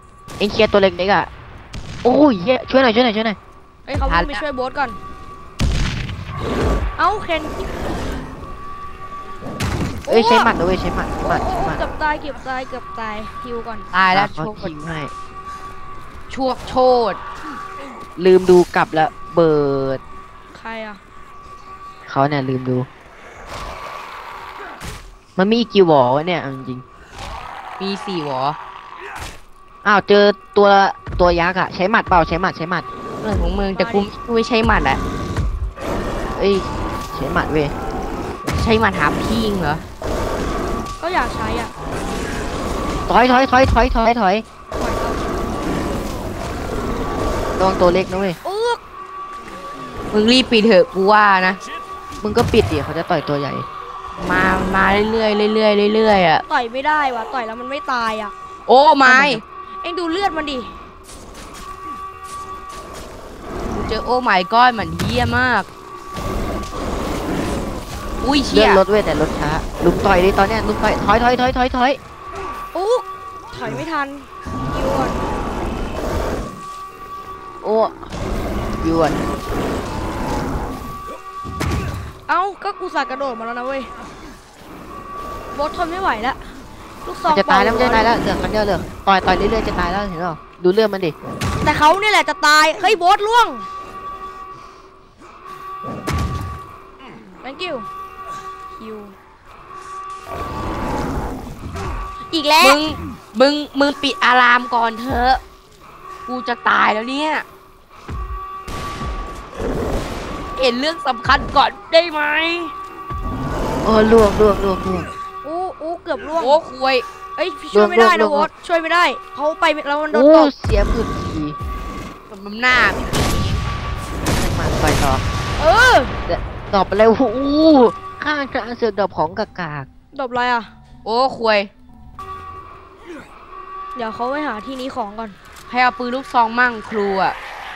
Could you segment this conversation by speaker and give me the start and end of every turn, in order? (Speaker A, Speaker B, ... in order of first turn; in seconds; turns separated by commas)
Speaker A: 0.4-1.3, Speaker A: 2.0-3.4, Speaker B: 3.9-5.0, Speaker C: 4.1-4.4, Speaker B: 7.0-7.6, Speaker B: 10.0-10.5, Speaker A: 10.1-11.8, Speaker B: 11.2-13.9, Speaker C: 13.9-14.7, Speaker A: 14.1-15.1, Speaker C: 16.3-17.2, Speaker A: 18.2-20.0, Speaker B: 20.5-21.0, Speaker A: 22.1-22.9, Speaker A: 25.4-26.8, Speaker C: 27.8-28.6, Speaker A: 29.8-32.9, Speaker C: 33.2-35.0, Speaker B: 33.3-34.1, Speaker A: 36.3-37.7, Speaker C: 38.6-39.8, Speaker B: 41.0-41.7, Speaker A: 43.1-44.5, Speaker B: 44.7-45.2, Speaker A: 47.6-48.4, Speaker B: 48.4-48.8, Speaker C: 50.1-51.6, Speaker A: 52.2-53.7, Speaker C: 54.2-56.4, Speaker B: 56.5-58.3, Speaker C: 58.7-59.4, Speaker A: 59.0-59.4, Speaker B: 59.8-60.7, Speaker C: 63.7-65.7, Speaker C: 68.2-68.8, Speaker A: 68.5-72.0, Speaker B: 72.7-75.2, Speaker A: 77.6-78.0, Speaker A: 78.8-79.2, Speaker B: 82.3-83.9, Speaker B: 85.5-86.5, Speaker B: 87.0-88.1, Speaker A: 87.2-91.2, Speaker B: 91.6-93.7, Speaker B: 97.4-97.9, Speaker B: 98.8-99.1, Speaker B: 102.3-102.8, Speaker C: 102.6-105.4, Speaker C: 106.3-107.4, Speaker C: 110.6-112.7, Speaker A: 113.8-115.1, Speaker B: 115.4-116.6, Speaker C: 116.4-117.0, Speaker B: 117.4-120.5, Speaker A: 117.7-118.5, Speaker A: 120.1-121.5, Speaker C: 122.3-123.6, Speaker A: 124.2-125.2, Speaker B: 125.6-126.1, Speaker A: 126.3-129.9, Speaker B: 130.1-130.7, Speaker C: 131.0-131.7, Speaker B: 133.9-135.3, Speaker C: 135.7-137.3